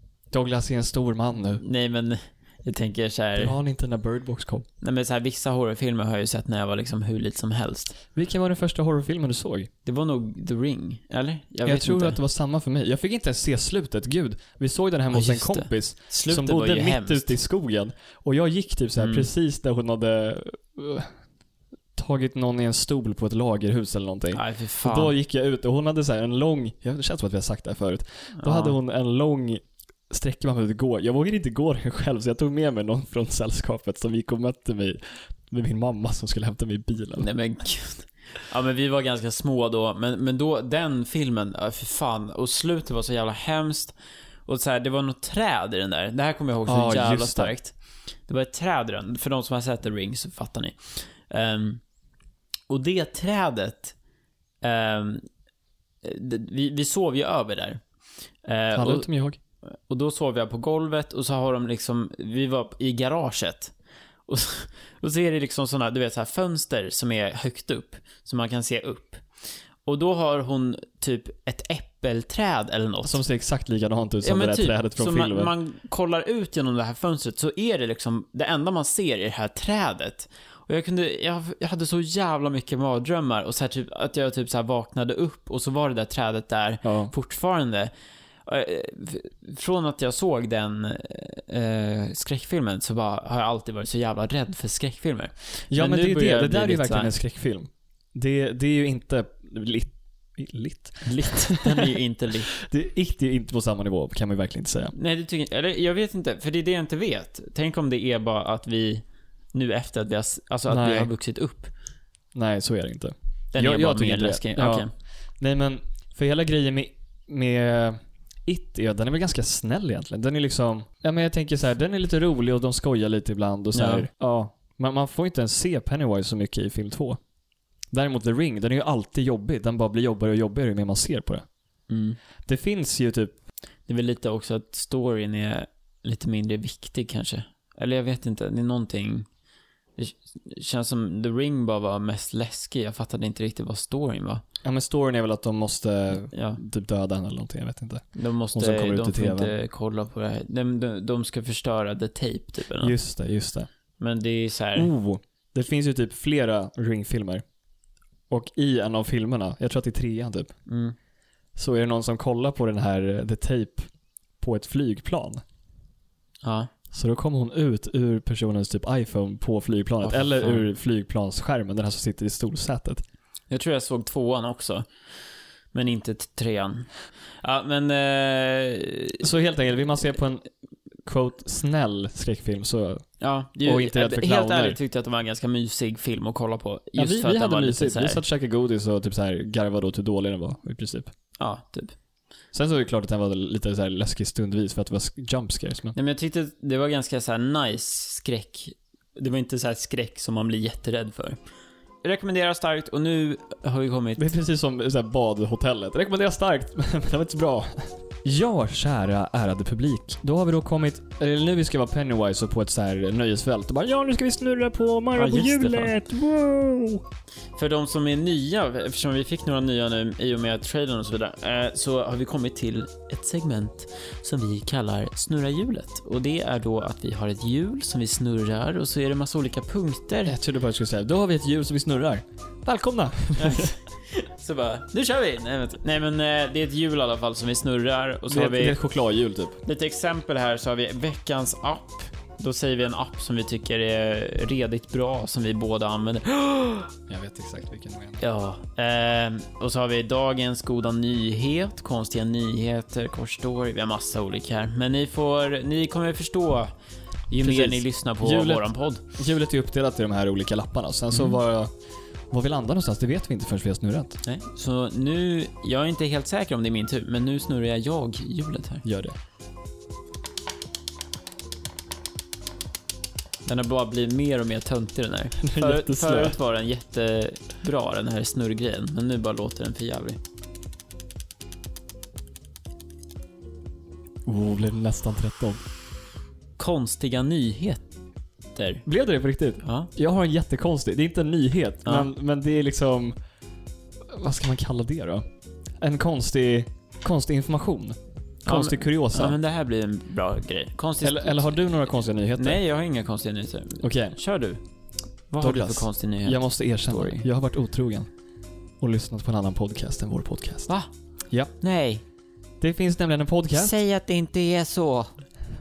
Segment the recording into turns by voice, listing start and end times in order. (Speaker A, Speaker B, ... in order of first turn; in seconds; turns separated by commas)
Speaker A: 0.3-1.6, Speaker B: 1.6-3.5, Speaker A: 3.4-4.7, Speaker B: 4.8-8.0, Speaker A: 8.1-9.7, Speaker B: 9.8-12.2, Speaker A: 11.6-21.1, Speaker B: 15.1-17.3, Speaker B: 19.0-19.3, Speaker A: 21.9-37.3, Speaker B: 24.3-25.1, Speaker B: 28.3-28.8, Speaker B: 37.2-43.9, Speaker B: 44.5-47.7, Speaker A: 46.7-47.5, Speaker B: 48.3-51.8, Speaker B: 52.7-53.9, Speaker B: 54.6-55.2, Speaker B: 56.0-57.8, Speaker B: 58.4-59.1, Speaker A: 58.7-59.4, Speaker B: 59.7-63.7, Speaker B: 64.3-69.2, Speaker B: 69.8-73.2, Speaker A: 73.0-75.5, Speaker B: 74.2-87.9, Speaker A: 86.8-87.1, Speaker B: 88.4-97.1, Speaker A: 95.7-101.9, Speaker B: 101.0-102.5, Speaker A: 102.5-104.9, Speaker B: 104.9-111.7, Speaker A: 110.7-111.1, Speaker A: 112.3-114.9, Speaker B: 113.5-114.9, Speaker A: 115.4-127.2, Speaker B: 123.7-124.0, Speaker A: 127.9-131.4, Speaker B: 131.9-132.2, Speaker A: 132.4-133.3, Speaker B: 133.9-139.3, Speaker B: 140.0-144.4, Speaker A: 144.6-149.5, Speaker B: 146.3-146.6, Speaker B: 148.1-152.9, Speaker A: 152.8-153.7, Speaker B: 154.0-154.9, Speaker A: 154.8-157.4, Speaker A: 158.3-160.5, Speaker B: 160.7-160.9, Speaker A: 161.6-163.9, Speaker A: 164.4-165.4, Speaker B: 166.4-166.7, Speaker A: 166.9-173.0, Speaker B: 170.0-170.7, Speaker B: 173.5-174.9, Speaker B: 175.7-179.2, Speaker A: 179.2-180.4, Speaker A: 181.0-183.1, Speaker B: 183.2-188.2, Speaker A: 183.6-184.8, Speaker A: 186.9-191.1, Speaker B: 191.4-191.9, Speaker A: 192.5-195.9, Speaker B: 195.9-201.4, Speaker B: 202.0-204.3, Speaker A: 204.2-217.0, Speaker B: 215.1-215.9, Speaker B: 217.6-230.4, Speaker A: 230.2-233.7, Speaker B: 233.4-238.8, Speaker A: 238.3-239.6, Speaker B: 239.6-246.9, Speaker A: 247.1-248.2, Speaker B: 248.2-256.7, Speaker B: 257.3-259.0, Speaker A: 257.4-261.7, Speaker B: 261.1-261.4, Speaker A: 262.3-264.2, Speaker B: 264.2-268.8, Speaker A: 268.8-269.1, Speaker B: 273.4-280.2, Speaker A: 275.4-276.4, Speaker A: 284.2-285.6, Speaker B: 286.6-287.9, Speaker B: 288.5-288.8, Speaker A: 288.8-293.1, Speaker B: 289.6-289.9, Speaker B: 291.8-292.1, Speaker A: 294.1-295.2, Speaker A: 295.8-299.4, Speaker B: 298.4-301.8, Speaker A: 301.0-302.6, Speaker B: 302.4-304.6, Speaker A: 303.8-304.2, Speaker B: 305.3-307.3, Speaker A: 305.4-308.1, Speaker A: 308.8-310.7, Speaker B: 311.6-312.0, Speaker A: 312.6-313.8, Speaker B: 313.5-315.1